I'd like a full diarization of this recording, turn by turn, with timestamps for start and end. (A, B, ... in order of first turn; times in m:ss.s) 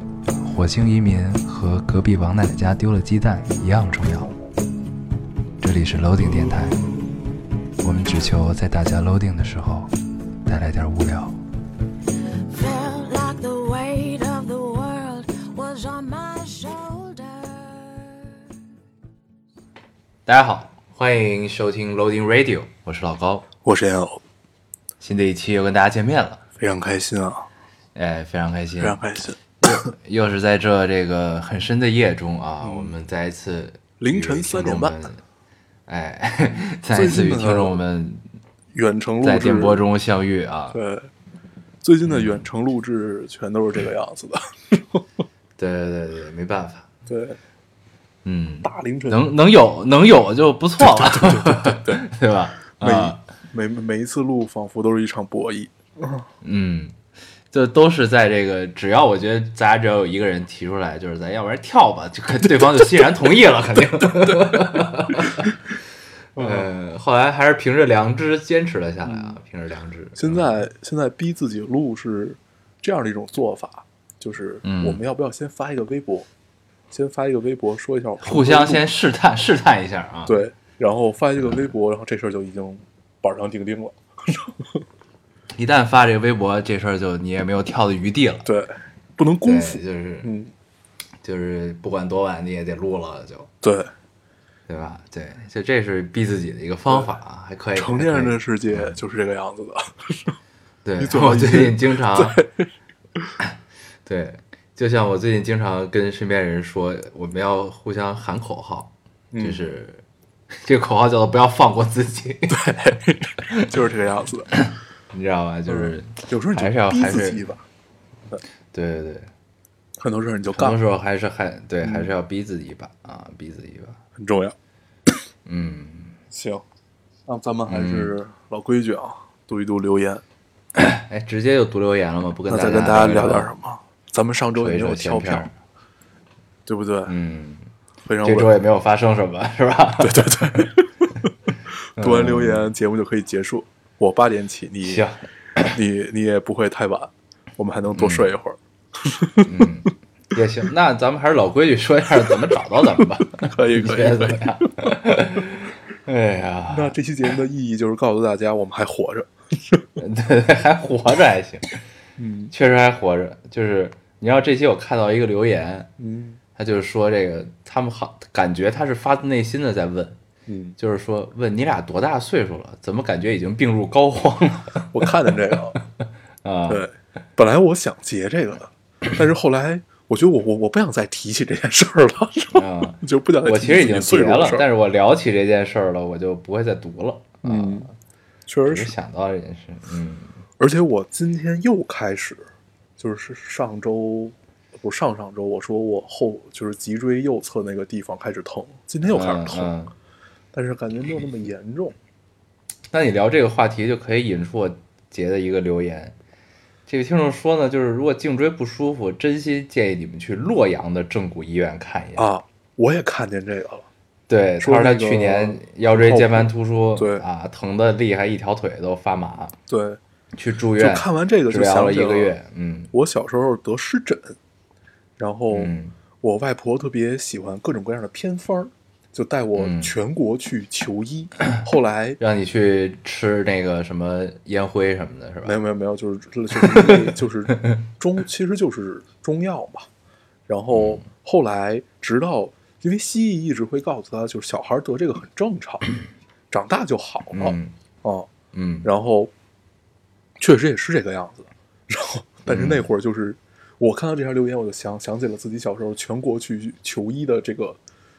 0:00.3-0:04.3 A
0:05.6-0:06.9 A
0:07.8-0:09.9 A
0:10.5-0:11.4 A
0:12.5-0:18.3 B
0:20.3-0:23.5 A
0:23.6-0:24.2 C
0:25.0-0:26.4 A
0:26.6-0:27.5 C
0:28.0-0:29.0 A
0:28.8-0:29.9 C
0:29.6-0:35.2 A
0:32.6-0:32.9 C
0:34.0-0:35.0 C
0:35.9-0:38.2 A
0:36.9-0:37.8 C
0:38.7-0:39.8 C
0:39.2-0:40.8 A
0:40.7-0:41.1 C
0:41.8-0:45.0 C
0:42.1-0:42.4 A
0:45.6-0:46.9 A
0:47.1-0:47.4 C
0:48.2-0:53.2 A
0:48.6-0:49.3 C
0:50.8-0:52.1 C
0:52.8-0:56.2 C
0:56.4-0:57.0 A
0:57.5-1:05.6 A
1:02.4-1:03.1 C
1:04.0-1:05.5 C
1:06.4-1:06.7 C
1:06.4-1:10.5 A
1:09.0-1:09.4 C
1:10.2-1:16.3 C
1:14.6-1:15.0 A
1:16.9-1:18.8 C
1:18.2-1:20.4 A
1:20.3-1:24.8 C
1:25.6-1:28.5 A
1:28.4-1:30.5 C
1:29.4-1:30.3 A
1:31.2-1:33.5 A
1:33.6-1:33.9 C
1:34.7-1:38.9 A
1:37.8-1:40.4 C
1:40.8-1:42.4 A
1:41.0-1:43.3 C
1:44.0-1:50.0 A
1:49.3-1:49.6 C
1:50.6-1:52.6 A
1:52.5-1:54.5 C
1:54.6-1:57.4 A
1:55.7-1:57.6 C
1:58.7-1:59.3 A
2:00.0-2:00.8 C
2:00.5-2:04.0 A
2:01.8-2:02.1 C
2:04.2-2:04.6 C
2:05.5-2:06.2 A
2:06.3-2:06.6 C
2:07.3-2:10.2 C
2:07.7-2:08.2 A
2:10.8-2:13.5 A
2:12.5-2:15.5 C
2:14.6-2:15.6 A
2:16.7-2:17.1 C
2:17.1-2:17.7 A
2:18.0-2:18.5 C
2:18.2-2:20.7 A
2:20.0-2:21.1 C
2:22.0-2:25.0 C
2:22.0-2:22.7 A
2:24.8-2:25.7 A
2:25.7-2:29.5 C
2:27.9-2:28.3 A
2:29.4-2:37.0 A
2:33.0-2:35.0 C
2:36.7-2:39.8 C
2:40.0-2:41.7 A
2:42.2-2:42.5 C
2:42.5-2:45.9 A
2:46.0-2:46.4 C
2:46.6-2:50.2 A
2:50.5-2:50.8 C
2:50.8-2:55.8 A
2:54.9-2:55.8 C
2:56.4-2:56.8 A
2:56.7-3:04.7 C
3:02.5-3:07.9 A
3:07.4-3:07.9 C
3:08.5-3:08.9 C
3:08.7-3:10.3 A
3:10.6-3:12.4 C
3:13.0-3:19.7 C
3:19.0-3:19.9 A
3:20.5-3:22.0 C
3:22.9-3:26.2 A
3:26.9-3:32.3 A
3:32.2-3:33.9 C
3:34.3-3:39.6 A
3:34.6-3:37.2 C
3:39.7-3:40.0 C
3:40.4-3:42.9 A
3:40.8-3:42.4 C
3:42.9-3:44.4 C
3:45.2-3:52.2 C
3:45.5-3:46.0 A
3:49.6-3:49.9 A
3:52.2-3:55.6 A
3:55.4-3:59.9 C
4:00.5-4:05.8 C
4:00.7-4:01.0 A
4:06.5-4:08.3 C
4:07.3-4:07.7 A
4:08.5-4:08.9 A
4:08.8-4:09.3 C
4:10.4-4:17.8 C
4:12.5-4:12.9 A